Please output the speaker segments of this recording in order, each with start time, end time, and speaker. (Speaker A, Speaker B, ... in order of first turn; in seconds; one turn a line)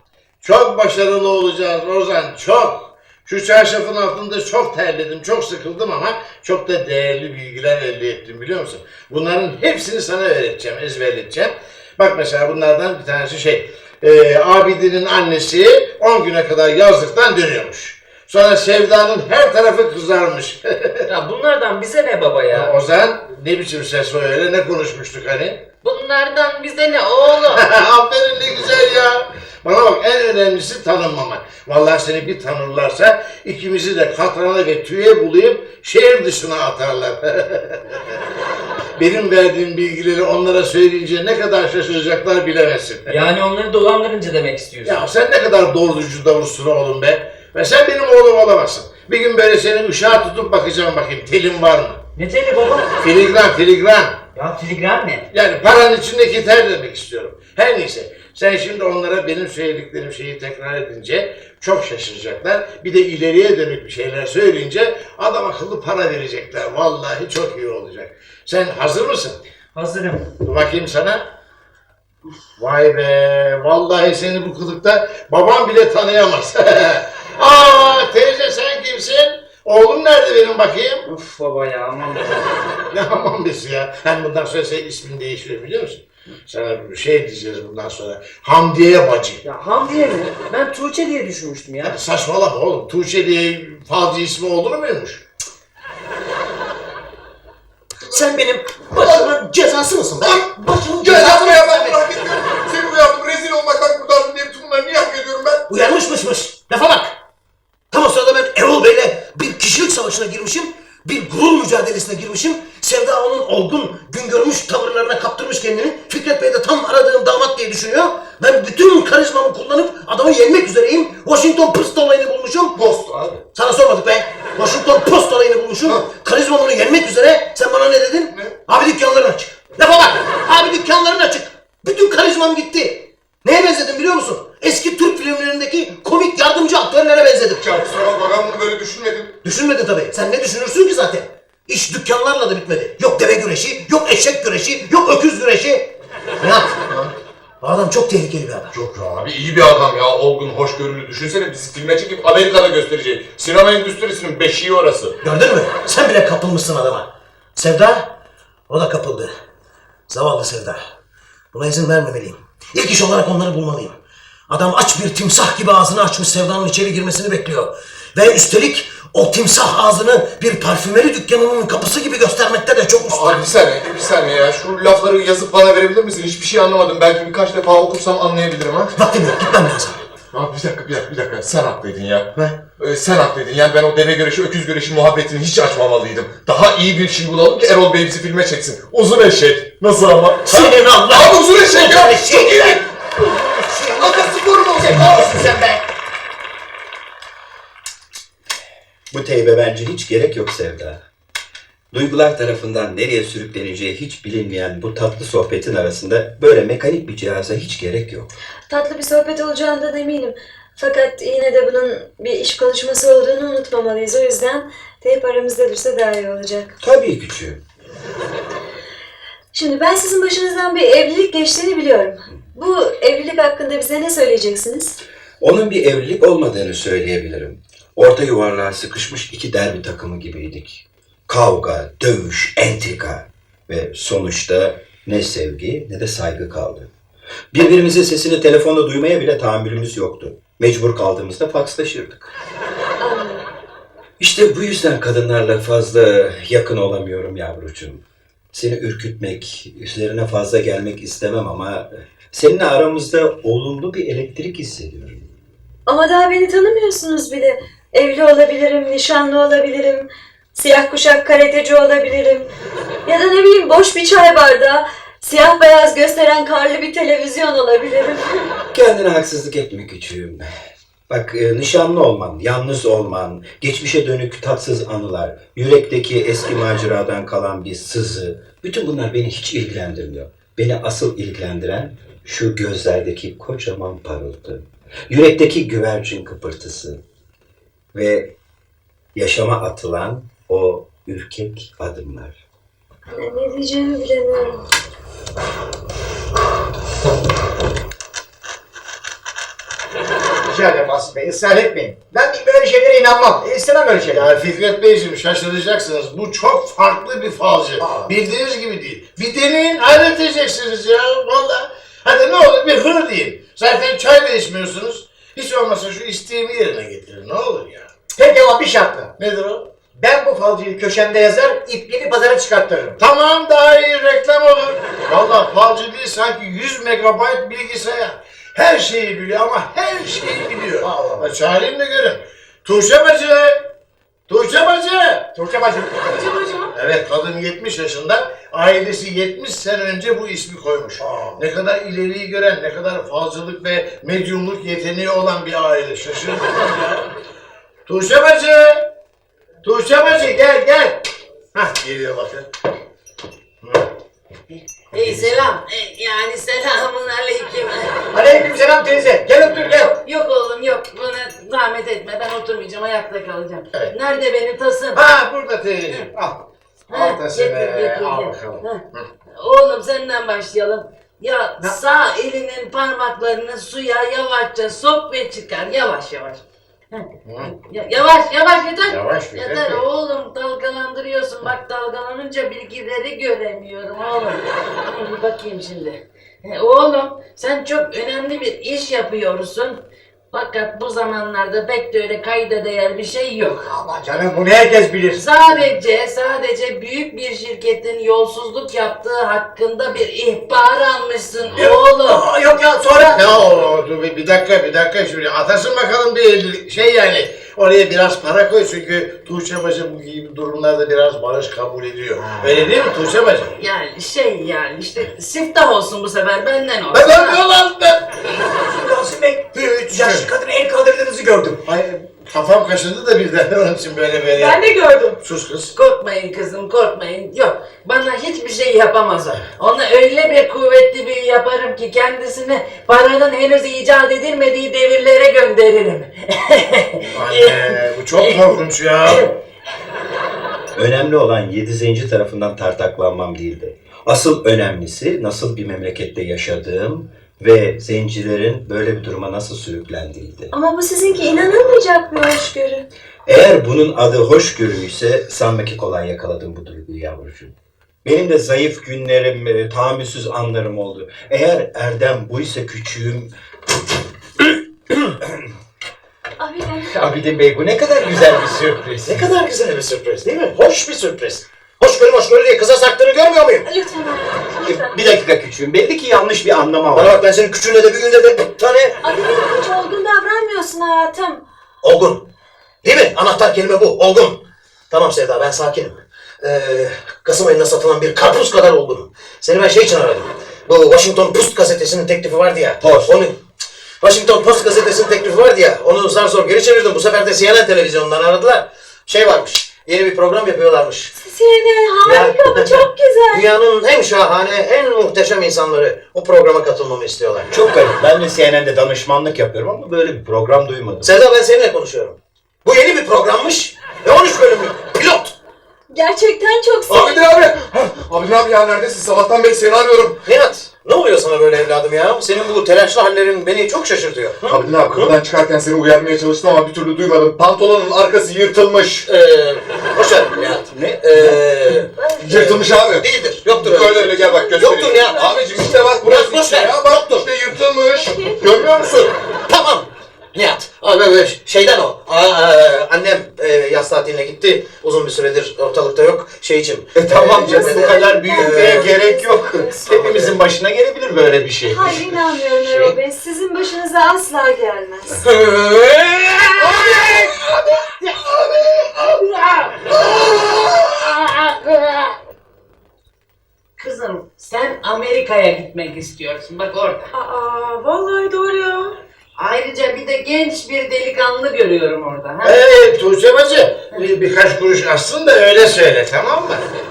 Speaker A: 0.4-21.1
Speaker B: 21.1-22.7
Speaker A: 22.5-25.7
Speaker C: 25.8-27.6
Speaker A: 27.5-38.0
Speaker A: 39.0-43.3
Speaker B: 43.1-45.0
Speaker A: 44.9-52.0
Speaker B: 52.2-52.9
Speaker A: 53.0-54.2
Speaker B: 54.3-55.3
Speaker A: 55.3-69.4
Speaker B: 69.8-70.3
Speaker A: 70.4-71.3
Speaker A: 72.6-81.0
Speaker B: 81.0-82.6
Speaker A: 82.9-89.4
Speaker B: 89.4-92.0
Speaker A: 91.8-95.2
Speaker D: 98.1-102.1
Speaker E: 99.0-99.3
Speaker E: 100.2-105.7
Speaker D: 105.7-107.2
Speaker D: 107.9-122.8
Speaker E: 122.7-123.4
Speaker D: 123.5-137.7
Speaker E: 128.3-128.6
Speaker E: 137.6-139.4
Speaker D: 139.4-146.8
Speaker D: 147.6-148.7
Speaker E: 148.7-155.2
Speaker D: 155.2-158.2
Speaker D: 158.7-159.3
Speaker D: 160.1-160.8
Speaker D: 161.5-173.4
Speaker E: 173.0-178.9
Speaker D: 178.9-180.0
Speaker E: 180.3-192.9
Speaker D: 190.5-192.9
Speaker D: 193.7-194.0
Speaker E: 193.9-195.6
Speaker F: 194.0-195.8
Speaker G: 199.1-201.0
Speaker G: 201.9-208.3
Speaker H: 208.7-216.8
Speaker G: 216.8-217.6
Speaker H: 219.5-225.0
Speaker G: 225.4-236.9
Speaker G: 237.5-242.3
Speaker H: 243.0-243.4
Speaker G: 244.2-255.3
Speaker H: 255.9-262.5
Speaker H: 263.1-268.5
Speaker G: 268.7-270.5
Speaker G: 271.1-287.0
Speaker G: 287.9-288.3
Speaker G: 289.1-292.4
Speaker H: 293.1-294.6
Speaker F: 300.5-304.3
Speaker A: 304.1-317.9
Speaker F: 307.8-308.1
Speaker F: 318.1-319.1
Speaker A: 319.2-319.7
Speaker F: 320.0-323.0
Speaker A: 323.0-333.7
Speaker F: 330.8-331.3
Speaker A: 334.3-335.3
Speaker F: 335.4-336.4
Speaker A: 336.7-347.1
Speaker F: 341.0-341.4
Speaker A: 347.9-348.9
Speaker A: 349.6-352.5
Speaker C: 354.5-358.0
Speaker F: 358.1-359.9
Speaker C: 359.7-365.0
Speaker A: 364.9-369.1
Speaker C: 366.9-368.8
Speaker C: 369.4-393.7
Speaker A: 377.2-377.5
Speaker A: 378.9-379.8
Speaker F: 393.6-395.6
Speaker C: 395.1-402.3
Speaker F: 401.5-403.3
Speaker A: 403.0-413.6
Speaker F: 412.2-412.7
Speaker C: 413.6-417.4
Speaker A: 416.9-418.1
Speaker F: 418.4-421.6
Speaker A: 419.9-420.3
Speaker A: 421.6-424.6
Speaker I: 424.3-425.2
Speaker A: 425.2-425.7
Speaker C: 425.7-439.4
Speaker A: 437.1-439.3
Speaker G: 440.8-450.5
Speaker H: 450.5-452.9
Speaker G: 453.3-463.3
Speaker H: 466.4-466.9
Speaker G: 466.9-469.3
Speaker D: 469.1-473.6
Speaker H: 473.6-475.0
Speaker G: 474.6-477.2
Speaker D: 476.9-478.9
Speaker H: 479.0-481.4
Speaker D: 481.8-482.3
Speaker D: 482.8-493.4
Speaker G: 492.8-493.3
Speaker D: 494.0-501.1
Speaker H: 501.2-503.5
Speaker D: 502.1-507.5
Speaker G: 507.5-511.2
Speaker D: 511.0-515.4
Speaker H: 515.9-517.2
Speaker E: 516.9-520.2
Speaker D: 520.2-525.1
Speaker E: 524.5-529.1
Speaker D: 529.1-535.2
Speaker G: 530.8-531.0
Speaker E: 532.2-539.1
Speaker H: 534.2-536.0
Speaker D: 536.0-537.3
Speaker H: 538.0-538.3
Speaker D: 539.5-549.0
Speaker G: 547.0-552.9
Speaker H: 547.3-549.9
Speaker D: 550.0-550.4
Speaker H: 551.7-555.2
Speaker C: 563.8-567.1
Speaker I: 567.1-569.0
Speaker C: 569.4-572.6
Speaker A: 572.4-576.6